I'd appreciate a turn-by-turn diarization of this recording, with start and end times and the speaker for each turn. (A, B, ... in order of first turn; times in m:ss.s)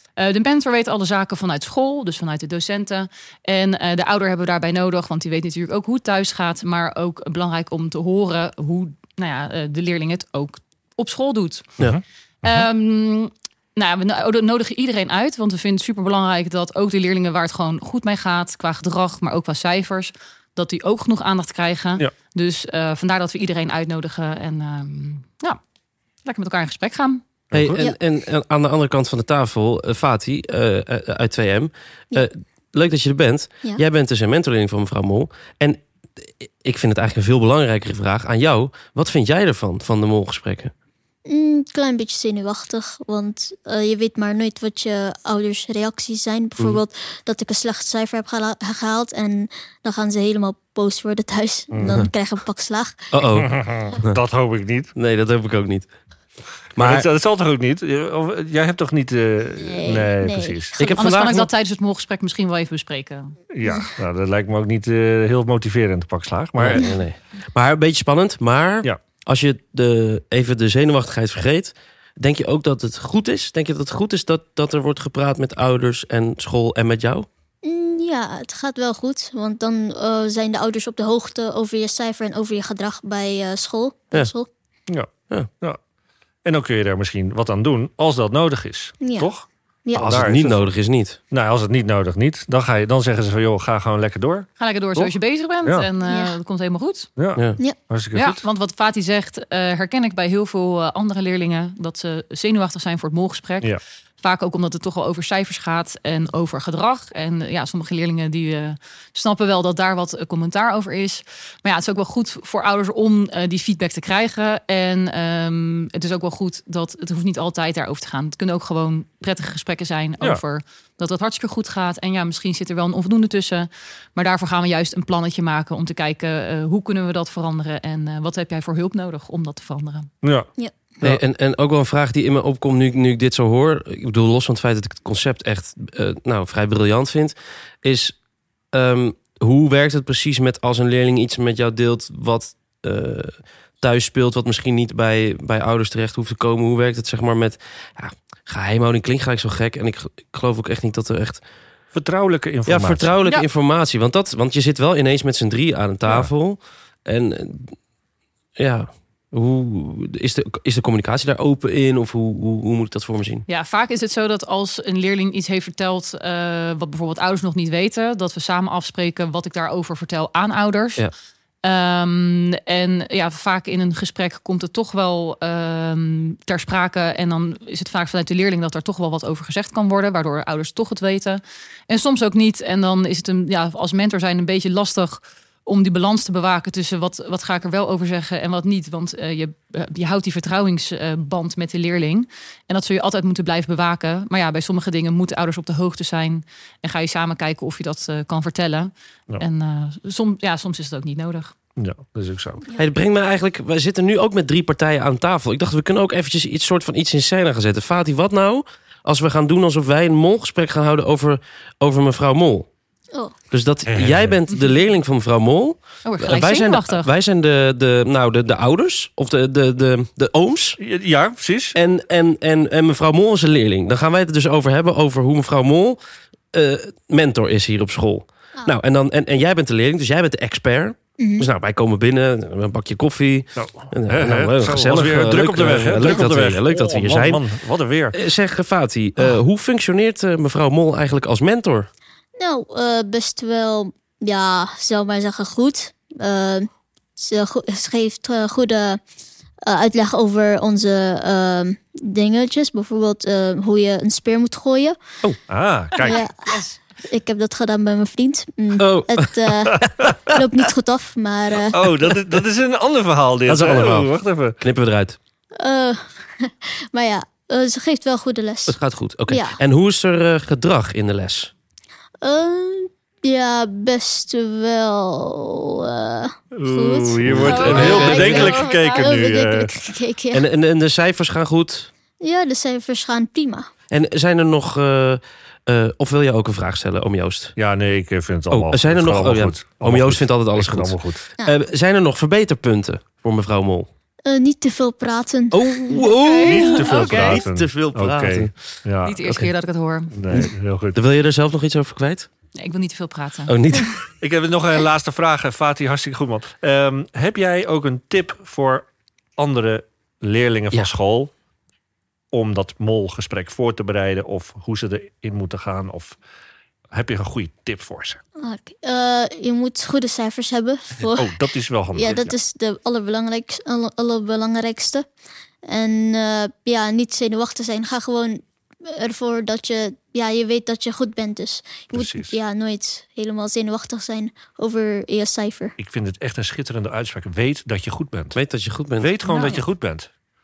0:00.2-0:11.8 A
0:11.8-0:12.7 B
0:12.4-0:25.6 A
0:26.2-0:27.2 A
0:27.5-0:27.8 B
0:27.5-0:40.7 C
0:41.3-0:53.1 D
0:51.7-0:52.0 B
0:53.1-0:54.2 C
0:53.4-0:54.9 B
0:55.0-0:55.9 C
0:56.8-0:57.1 C
0:56.8-1:00.7 B
0:59.6-1:00.8 D
1:00.8-1:01.5 C
1:00.8-1:03.4 A
1:03.5-1:06.9 B
1:06.6-1:17.3 C
1:17.6-1:24.5 D
1:26.4-1:30.7 B
1:29.0-1:29.3 D
1:29.9-1:30.2 D
1:29.9-1:31.2 C
1:31.3-1:35.1 B
1:34.6-1:37.1 A
1:36.0-1:36.4 D
1:37.2-1:38.4 B
1:38.1-2:10.1 A
2:10.2-2:10.5 B
2:11.0-2:18.2 C
2:18.7-2:31.4 C
2:31.9-2:33.2 B
2:32.7-2:37.8 C
2:38.6-2:43.4 C
2:43.5-2:51.0 A
2:51.6-3:21.5 A
3:21.8-3:22.6 B
3:22.8-3:32.7 C
3:33.5-3:40.8 C
3:33.9-3:34.4 B
3:36.0-3:37.1 A
3:40.8-3:41.8 B
3:41.8-3:46.0 C
3:46.5-3:57.4 C
3:51.2-3:51.5 D
3:53.6-3:58.2 B
3:58.1-4:01.9 C
4:02.4-4:09.0 D
4:09.7-4:15.0 D
4:15.5-4:16.2 B
4:16.0-4:21.9 D
4:16.1-4:16.6 A
4:18.8-4:19.3 C
4:19.7-4:20.1 B
4:21.7-4:24.6 B
4:23.5-4:25.2 C
4:25.6-4:29.6 D
4:28.7-4:31.5 C
4:32.2-4:40.5 D
4:36.6-4:39.7 B
4:37.2-4:38.6 C
4:37.4-4:37.9 A
4:40.3-4:41.9 C
4:42.2-4:43.7 D
4:43.9-4:47.6 C
4:47.6-4:51.2 B
4:48.5-4:53.9 C
4:54.2-4:56.1 D
4:55.5-4:58.5 C
4:56.0-4:57.4 A
4:56.5-4:59.5 B
4:59.0-5:00.2 A
5:00.1-5:01.0 B
5:00.3-5:02.3 C
5:02.6-5:03.6 A
5:03.5-5:03.9 C
5:04.2-5:11.3 B
5:12.3-5:16.2 B
5:16.9-5:18.2 B
5:18.4-5:21.4 D
5:21.1-5:22.4 B
5:21.9-5:25.1 D
5:25.6-5:35.8 D
5:31.9-5:32.4 B
5:35.8-5:38.4 B
5:38.3-5:39.1 C
5:39.0-5:40.1 B
5:39.3-5:39.6 A